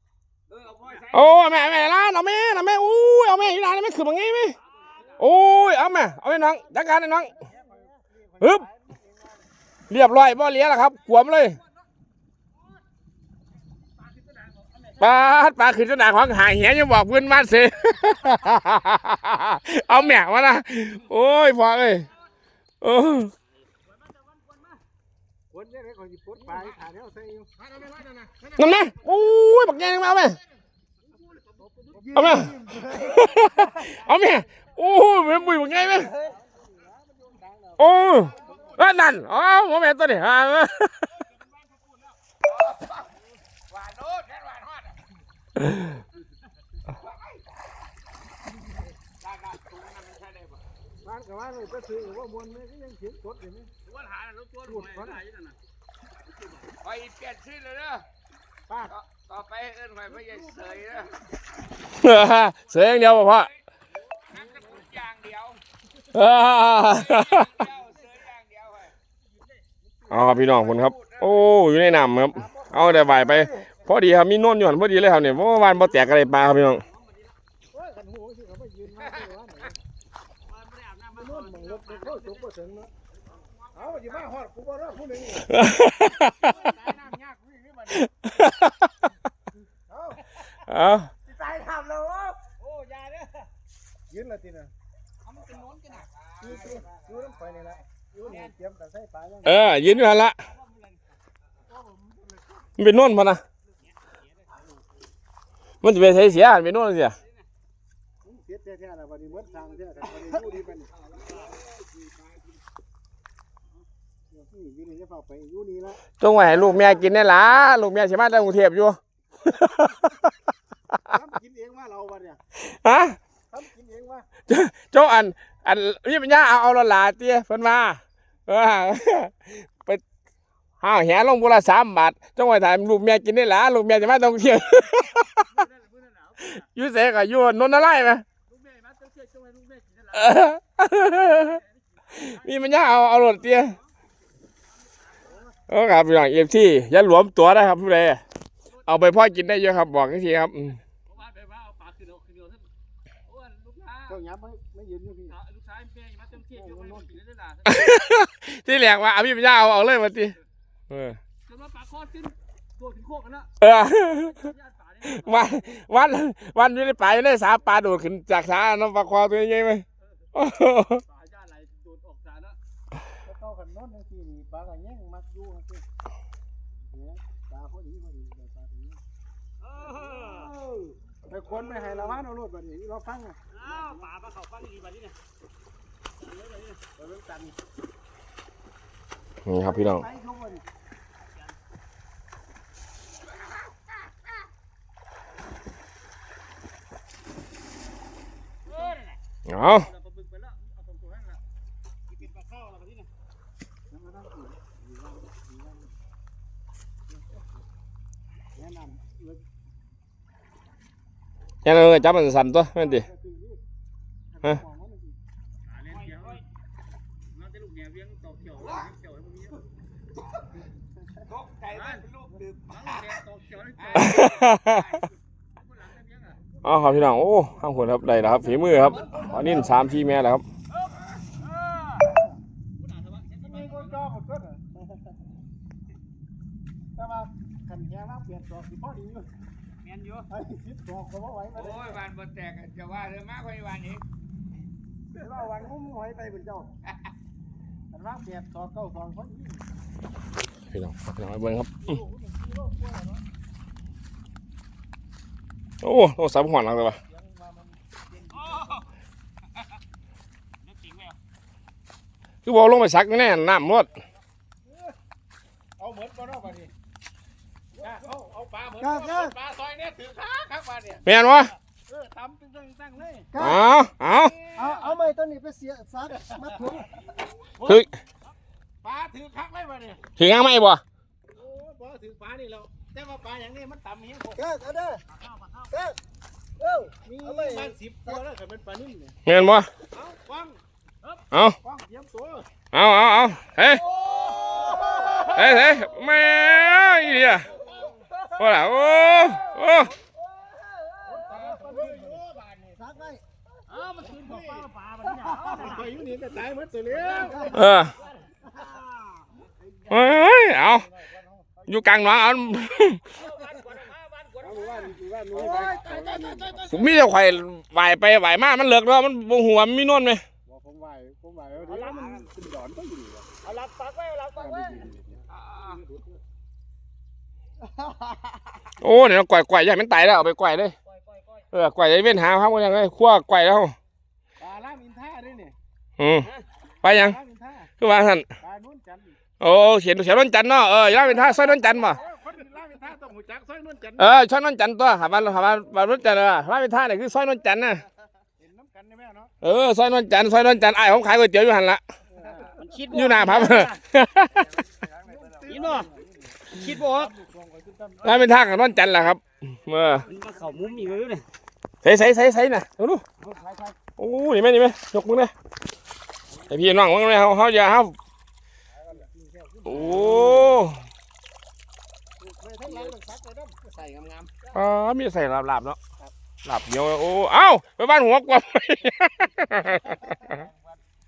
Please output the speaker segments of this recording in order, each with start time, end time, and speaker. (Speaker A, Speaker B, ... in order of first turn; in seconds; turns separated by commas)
Speaker A: 0.5-1.3, Speaker B: 1.1-4.6, Speaker C: 4.6-5.2, Speaker B: 5.2-7.3, Speaker D: 7.2-9.4, Speaker B: 8.4-8.7, Speaker B: 9.9-11.6, Speaker B: 15.0-22.1, Speaker B: 22.8-23.3, Speaker D: 25.5-27.6, Speaker B: 28.6-30.4, Speaker C: 31.1-32.2, Speaker B: 32.1-36.1, Speaker E: 32.2-33.3, Speaker D: 36.0-38.8, Speaker B: 37.8-41.1, Speaker A: 42.5-43.0, Speaker A: 43.7-45.0, Speaker A: 47.0-47.4, Speaker A: 49.2-50.6, Speaker D: 51.0-53.7, Speaker C: 53.9-55.5, Speaker D: 54.7-55.2, Speaker A: 56.8-58.0, Speaker D: 58.7-58.9, Speaker A: 58.9-61.1, Speaker B: 61.9-63.5, Speaker A: 64.3-65.6, Speaker B: 66.1-67.7, Speaker A: 66.9-68.9, Speaker D: 70.1-70.5, Speaker B: 70.1-76.8, Speaker A: 70.7-71.5, Speaker D: 72.3-73.6, Speaker C: 76.8-77.3, Speaker D: 77.7-79.7, Speaker C: 80.5-82.4, Speaker D: 81.1-82.9, Speaker D: 83.8-85.6, Speaker B: 85.5-86.5, Speaker D: 86.4-88.0, Speaker B: 88.2-88.9, Speaker D: 89.9-90.2, Speaker B: 90.6-91.1, Speaker D: 91.4-92.3, Speaker C: 92.6-93.5, Speaker D: 94.1-94.7, Speaker C: 95.3-96.1, Speaker A: 95.4-97.3, Speaker D: 96.4-99.5, Speaker B: 99.4-100.4, Speaker C: 100.5-100.9, Speaker B: 102.8-103.4, Speaker B: 105.8-107.2, Speaker D: 108.2-110.9, Speaker A: 111.3-112.3, Speaker D: 114.3-116.0, Speaker B: 116.2-120.3, Speaker D: 121.1-122.4, Speaker B: 122.6-123.2, Speaker D: 123.5-124.3, Speaker B: 124.5-130.0, Speaker B: 130.8-135.5, Speaker C: 135.5-136.6, Speaker B: 136.4-138.2, Speaker C: 138.5-140.3, Speaker B: 140.1-141.6, Speaker C: 141.4-142.3, Speaker B: 142.1-143.8, Speaker B: 145.7-148.2, Speaker B: 148.8-150.8, Speaker C: 151.1-152.7, Speaker C: 153.2-154.2, Speaker D: 154.1-155.3, Speaker C: 155.3-157.8, Speaker D: 156.5-157.0, Speaker B: 157.7-160.3, Speaker B: 160.9-161.2, Speaker C: 161.5-163.5, Speaker B: 163.6-164.4, Speaker C: 164.1-165.8, Speaker B: 165.0-171.0, Speaker C: 171.1-172.6, Speaker D: 173.2-175.8, Speaker D: 176.9-179.0, Speaker C: 179.6-180.5, Speaker D: 179.9-184.0, Speaker C: 183.5-185.1, Speaker C: 186.2-186.8, Speaker D: 187.0-187.5, Speaker B: 189.4-190.0, Speaker D: 189.6-190.6, Speaker C: 198.7-199.1, Speaker B: 199.5-199.9, Speaker C: 199.8-201.4, Speaker C: 202.2-203.1, Speaker D: 203.9-205.5, Speaker D: 208.6-209.4, Speaker B: 211.6-213.1, Speaker D: 212.8-213.6, Speaker D: 214.3-215.2, Speaker C: 215.7-216.4, Speaker C: 217.3-219.6, Speaker A: 221.3-222.8, Speaker C: 221.7-222.1, Speaker C: 222.7-224.5, Speaker A: 223.8-225.1, Speaker B: 223.9-224.9, Speaker C: 225.6-226.4, Speaker B: 226.6-230.4, Speaker D: 228.9-229.7, Speaker C: 232.8-233.9, Speaker D: 233.4-234.7, Speaker D: 236.9-239.3, Speaker C: 239.8-240.2, Speaker D: 240.3-242.0, Speaker A: 241.5-244.0, Speaker D: 245.2-246.7, Speaker D: 247.9-249.6, Speaker B: 250.7-251.9, Speaker D: 251.9-253.2, Speaker B: 255.8-257.0, Speaker D: 257.1-257.8, Speaker C: 258.5-258.8, Speaker C: 260.7-261.1, Speaker B: 262.4-263.9, Speaker D: 265.8-266.7, Speaker D: 267.8-271.0, Speaker E: 268.8-269.3, Speaker B: 271.1-271.5, Speaker D: 271.9-273.3, Speaker E: 273.3-273.6, Speaker B: 273.4-274.4, Speaker E: 274.6-276.9, Speaker B: 277.6-277.9, Speaker D: 278.8-280.0, Speaker B: 280.2-280.8, Speaker D: 281.3-284.4, Speaker E: 284.4-285.0, Speaker E: 285.7-286.0, Speaker E: 286.6-287.7, Speaker D: 287.2-289.1, Speaker B: 289.2-289.7, Speaker D: 290.0-290.6, Speaker B: 291.3-291.6, Speaker D: 291.6-292.5, Speaker B: 292.7-293.9, Speaker E: 294.3-295.3, Speaker D: 294.6-295.2, Speaker B: 295.2-297.5, Speaker B: 298.4-299.9, Speaker E: 299.2-302.0, Speaker D: 301.1-302.6, Speaker E: 302.8-303.2, Speaker C: 303.7-305.8, Speaker E: 305.4-305.6, Speaker D: 305.5-307.6, Speaker E: 307.1-307.6, Speaker B: 307.5-307.9, Speaker B: 309.9-310.9, Speaker D: 311.1-311.6, Speaker B: 311.7-313.0, Speaker C: 313.1-314.9, Speaker D: 314.4-316.7, Speaker E: 315.4-316.6, Speaker B: 316.7-320.2, Speaker D: 320.5-323.3, Speaker C: 321.7-322.2, Speaker C: 323.4-324.8, Speaker D: 324.4-326.2, Speaker A: 325.4-325.8, Speaker B: 328.8-330.7, Speaker C: 330.9-331.4, Speaker B: 331.5-333.8, Speaker D: 334.4-335.6, Speaker B: 336.0-336.3, Speaker B: 336.8-337.2, Speaker D: 337.0-337.7, Speaker B: 337.8-338.3, Speaker D: 338.4-339.1, Speaker B: 339.4-342.0, Speaker D: 341.0-344.1, Speaker B: 344.0-347.8, Speaker D: 348.4-349.3, Speaker B: 349.4-351.8, Speaker D: 352.1-352.5, Speaker C: 352.6-353.7, Speaker B: 352.9-354.5, Speaker D: 355.0-358.2, Speaker C: 355.4-355.9, Speaker C: 356.5-357.1, Speaker B: 358.0-360.1, Speaker C: 360.1-361.2, Speaker B: 361.8-363.0, Speaker B: 364.0-365.3, Speaker B: 366.5-367.9, Speaker D: 368.8-370.5, Speaker B: 369.6-370.8, Speaker D: 372.2-373.7, Speaker B: 374.5-375.8, Speaker B: 376.4-380.2